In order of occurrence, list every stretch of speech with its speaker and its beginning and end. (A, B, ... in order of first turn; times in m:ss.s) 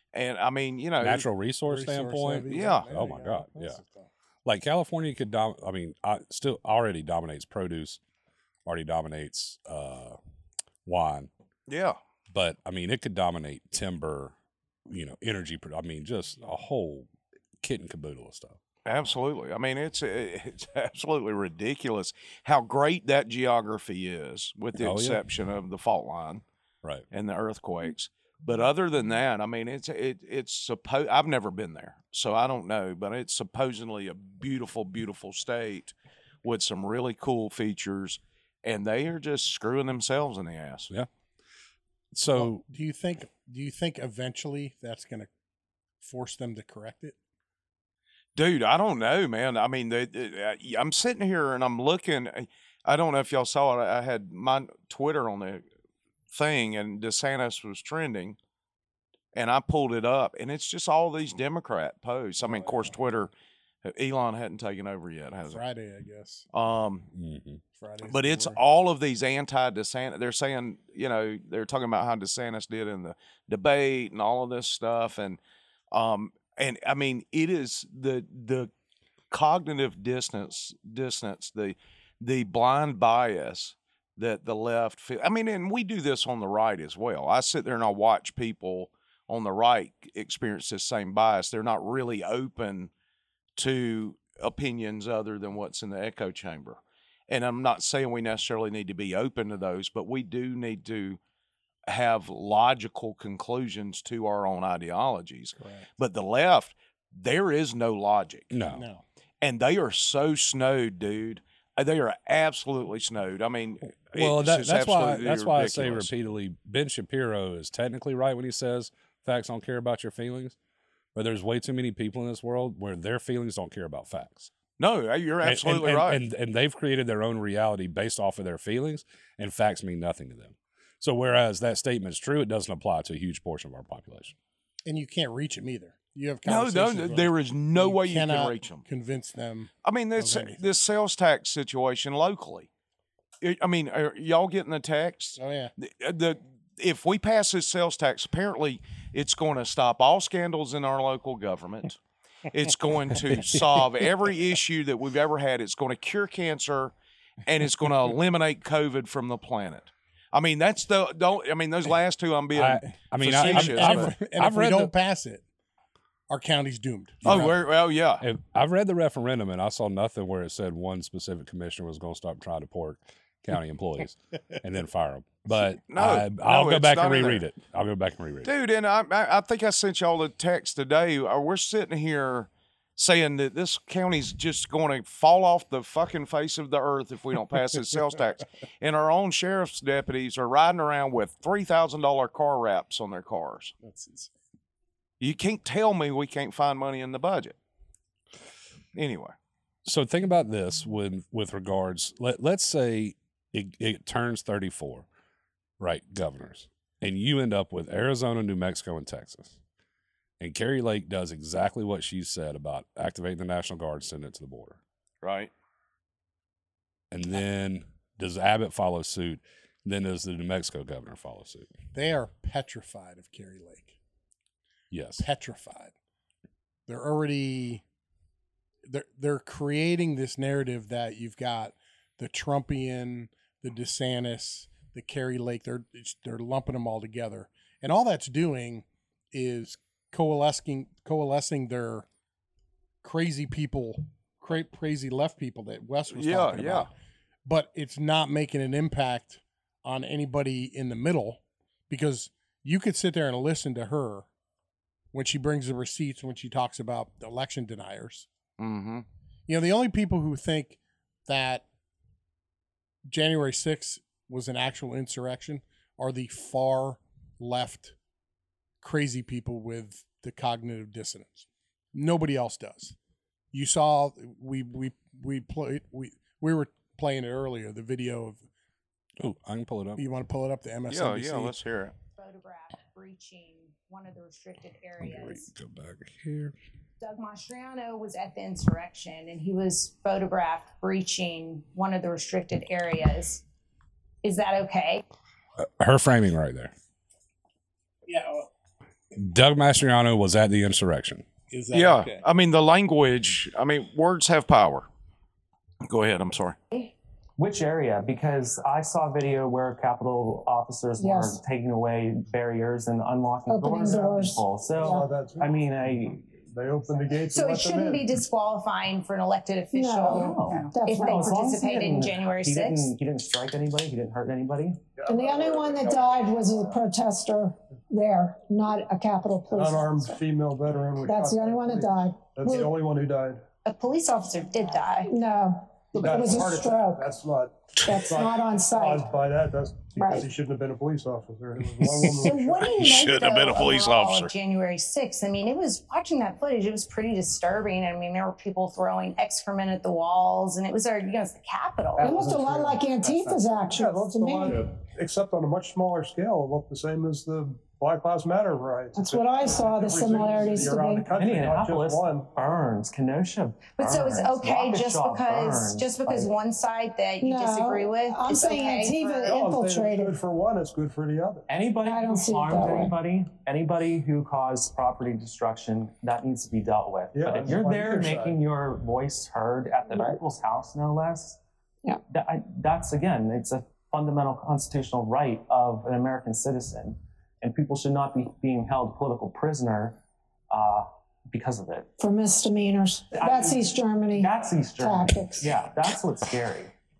0:00.1-0:01.3 A
0:01.0-0:03.8 B
0:01.7-0:04.1 C
0:02.5-0:02.8 A
0:04.4-0:08.0 B
0:08.6-0:10.2 B
0:10.8-0:11.3 B
0:11.7-0:12.0 A
0:12.3-0:14.3 B
0:14.9-0:17.1 B
0:17.6-0:18.6 B
0:18.8-0:26.4 A
0:24.8-0:25.2 B
0:27.1-0:40.9 A
0:42.1-0:42.6 B
0:42.3-0:45.3 C
0:46.0-0:47.2 C
0:48.4-0:55.6 A
0:56.3-0:58.4 A
0:59.3-1:03.3 A
1:02.4-1:02.9 C
1:03.8-1:05.6 A
1:05.5-1:06.4 C
1:06.5-1:07.1 A
1:07.1-1:07.6 B
1:07.8-1:08.6 C
1:08.1-1:15.4 A
1:15.9-1:18.7 A
1:19.3-1:32.9 A
1:33.6-1:41.2 A
1:41.9-1:48.5 A
1:45.6-1:45.9 C
1:48.5-1:48.8 B
1:48.7-1:49.0 C
1:49.4-1:56.2 A
1:54.1-2:00.6 B
2:01.1-2:04.5 B
2:04.8-2:06.2 A
2:05.4-2:14.4 B
2:14.8-2:20.7 C
2:16.4-2:18.8 A
2:19.8-2:22.7 A
2:23.4-2:36.9 A
2:25.4-2:25.7 C
2:37.4-2:44.1 A
2:42.5-2:44.9 B
2:43.3-2:45.4 C
2:46.3-2:47.6 C
2:47.2-2:47.6 B
2:47.2-2:48.2 A
2:48.2-2:58.5 B
2:55.9-2:57.4 A
2:58.4-3:13.7 A
3:13.8-3:14.3 C
3:15.2-3:17.6 A
3:18.9-3:19.3 A
3:19.8-3:25.1 B
3:25.8-3:29.6 B
3:30.4-3:34.8 B
3:35.2-3:35.5 A
3:37.1-3:41.7 B
3:41.9-3:44.0 C
3:44.9-3:45.2 B
3:45.2-3:45.9 C
3:46.9-3:47.8 C
3:48.8-4:02.0 C
4:03.0-4:06.9 C
4:06.1-4:06.9 A
4:07.4-4:14.3 C
4:15.1-4:18.3 C
4:18.6-4:19.0 A
4:19.5-4:21.6 C
4:23.1-4:27.9 C
4:28.8-4:32.9 C
4:33.5-4:38.4 C
4:39.2-4:40.0 B
4:40.0-4:41.5 C
4:40.9-4:41.9 A
4:42.2-4:45.5 D
4:45.0-4:46.5 B
4:47.0-4:53.4 D
4:54.2-4:55.0 D
4:55.6-4:56.7 B
4:58.1-4:58.5 C
4:59.1-5:01.2 B
5:01.5-5:02.2 C
5:01.7-5:04.9 A
5:05.8-5:06.6 A
5:07.4-5:16.2 E
5:11.0-5:11.4 F
5:13.5-5:15.0 F
5:14.7-5:18.1 G
5:17.3-5:22.9 D
5:19.7-5:21.8 F
5:20.1-5:24.9 E
5:24.9-5:26.8 G
5:25.0-5:30.2 F
5:29.5-5:33.4 G
5:31.0-5:32.7 F
5:33.6-5:35.1 D
5:35.1-5:37.1 F
5:35.9-5:43.1 G
5:37.8-5:39.1 F
5:40.0-5:40.3 F
5:42.2-5:52.1 D
5:42.8-5:44.3 A
5:52.0-6:02.3 G
5:52.0-5:54.6 F
5:58.9-6:01.1 F
6:01.1-6:06.3 E
6:03.7-6:09.4 D
6:07.2-6:10.2 F
6:09.2-6:11.5 G
6:11.5-6:21.4 E
6:11.8-6:12.9 F
6:17.1-6:18.4 G
6:19.9-6:20.2 F
6:22.1-6:30.0 E
6:30.5-6:31.9 E
6:32.0-6:35.6 F
6:33.1-6:36.7 E